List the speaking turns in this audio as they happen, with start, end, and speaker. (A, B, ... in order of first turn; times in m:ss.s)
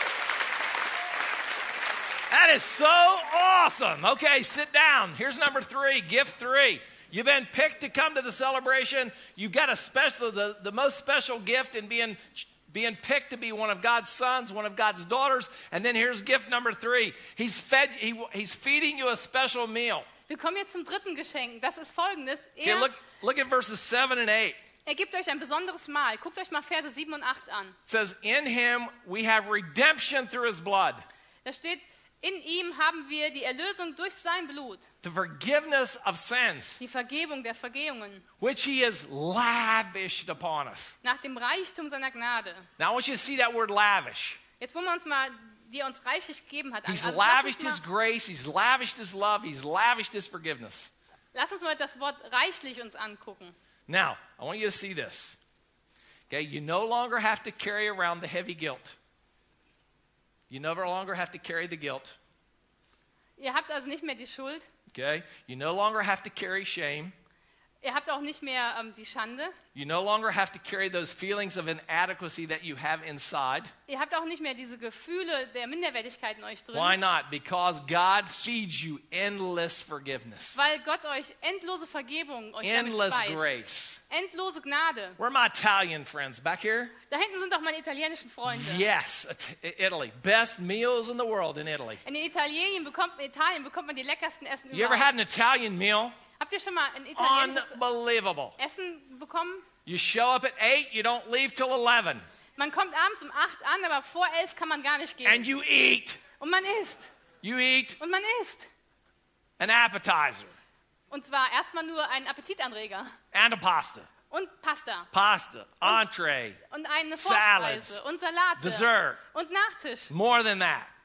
0:02.3-0:20.1 A
0:20.3-0:22.9 B
0:22.6-0:24.6 A
0:24.9-0:27.8 B
0:27.9-0:31.0 A
0:31.4-0:34.9 B
0:35.0-0:36.8 A
0:36.8-0:38.2 B
0:38.4-0:41.0 A
0:41.0-0:42.7 B
0:42.8-0:44.4 A
0:44.6-0:47.8 B
0:46.9-0:50.9 A
0:51.3-0:53.6 B
0:53.9-0:55.4 A
0:56.3-0:59.0 A
1:00.5-1:02.2 A
1:03.4-1:04.7 B
1:04.9-1:07.2 A
1:07.8-1:09.6 B
1:09.8-1:13.7 A
1:13.9-1:17.0 B
1:16.7-1:20.6 A
1:20.6-1:23.6 B
1:22.6-1:24.0 A
1:24.1-1:25.2 B
1:25.2-1:27.0 A
1:27.1-1:28.9 B
1:28.5-1:32.0 A
1:32.0-1:35.1 B
1:34.7-1:36.2 A
1:36.4-1:37.8 B
1:37.2-1:38.6 A
1:38.6-1:39.6 B
1:39.9-1:42.2 A
1:42.6-1:45.5 B
1:45.2-1:46.2 A
1:46.4-1:47.1 B
1:47.4-1:48.0 A
1:48.0-1:48.7 B
1:49.6-1:50.6 A
1:51.1-1:53.2 B
1:53.3-1:54.1 A
1:54.3-1:55.1 B
1:55.1-1:56.6 A
1:56.7-2:00.1 B
1:57.2-1:58.0 A
1:58.6-1:59.2 A
2:00.1-2:00.9 A